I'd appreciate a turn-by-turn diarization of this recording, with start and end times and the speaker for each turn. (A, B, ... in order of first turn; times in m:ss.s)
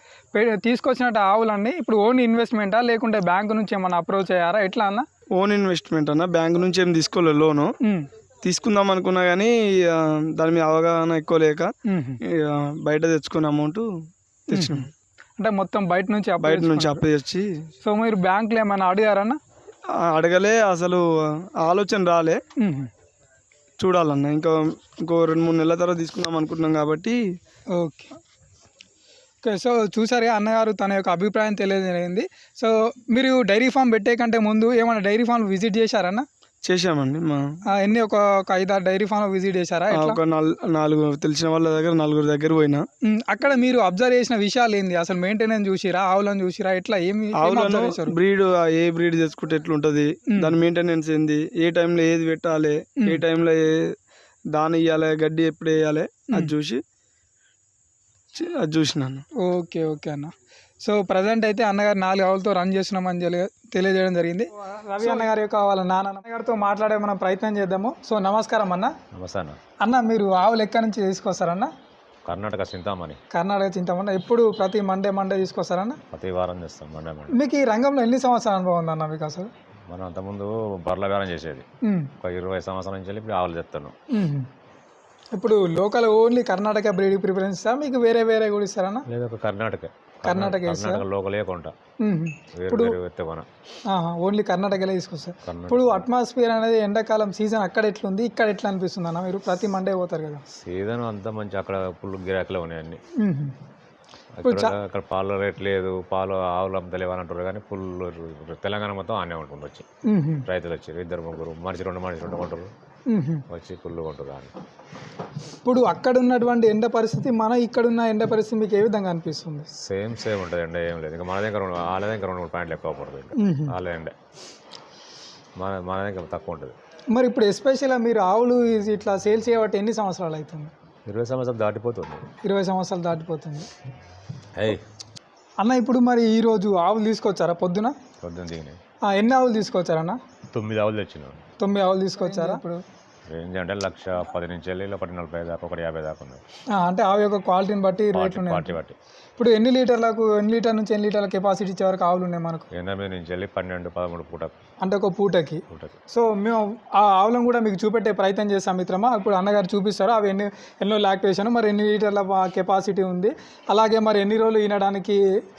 0:00.3-0:05.0 A
0:05.4-0:07.7 B
0:08.4-0:11.7 B
0:11.9-0:12.2 A
0:12.3-0:13.9 B
0:14.5-0:14.9 B
0:14.5-0:14.8 A
0:15.4-0:17.0 A
0:16.4-0:17.5 B
0:17.8-0:19.4 A
0:20.0-0:22.4 B
0:22.6-0:22.9 A
0:23.8-0:27.2 B
0:27.7-0:28.2 A
0:29.4-0:36.2 A
0:36.6-0:37.4 B
0:37.7-0:40.2 A
0:39.9-0:42.8 B
0:43.0-0:48.2 A
0:47.4-0:53.9 B
0:54.5-0:56.8 B
0:58.3-0:59.2 B
0:59.4-1:08.9 A
1:05.0-1:05.3 B
1:09.1-1:09.6 C
1:09.8-1:11.7 A
1:12.2-1:13.2 C
1:13.3-1:16.0 A
1:16.1-1:17.4 C
1:17.3-1:19.5 A
1:19.9-1:21.6 C
1:21.8-1:22.1 A
1:22.2-1:23.9 C
1:24.1-1:24.5 A
1:25.4-1:29.0 A
1:29.1-1:31.7 C
1:30.2-1:31.0 A
1:32.0-1:33.0 A
1:32.5-1:33.5 C
1:33.9-1:40.4 A
1:35.4-1:36.1 C
1:40.6-1:43.0 C
1:43.2-1:43.5 A
1:44.4-1:49.8 C
1:44.4-1:44.7 A
1:50.0-1:50.4 A
1:50.5-1:52.7 C
1:53.1-1:53.4 A
1:53.5-1:54.5 C
1:55.6-1:59.7 A
1:59.8-2:04.1 C
2:03.4-2:03.7 A
2:05.6-2:06.7 C
2:07.1-2:10.7 A
2:11.1-2:12.2 C
2:12.4-2:13.7 A
2:14.6-2:14.8 C
2:15.6-2:18.0 A
2:18.2-2:18.8 C
2:19.1-2:20.2 A
2:20.5-2:21.4 C
2:21.6-2:22.7 A
2:23.3-2:26.4 C
2:26.7-2:28.7 A
2:28.1-2:29.0 C
2:29.4-2:32.7 A
2:32.7-2:34.5 C
2:34.8-2:45.2 A
2:35.7-2:36.0 C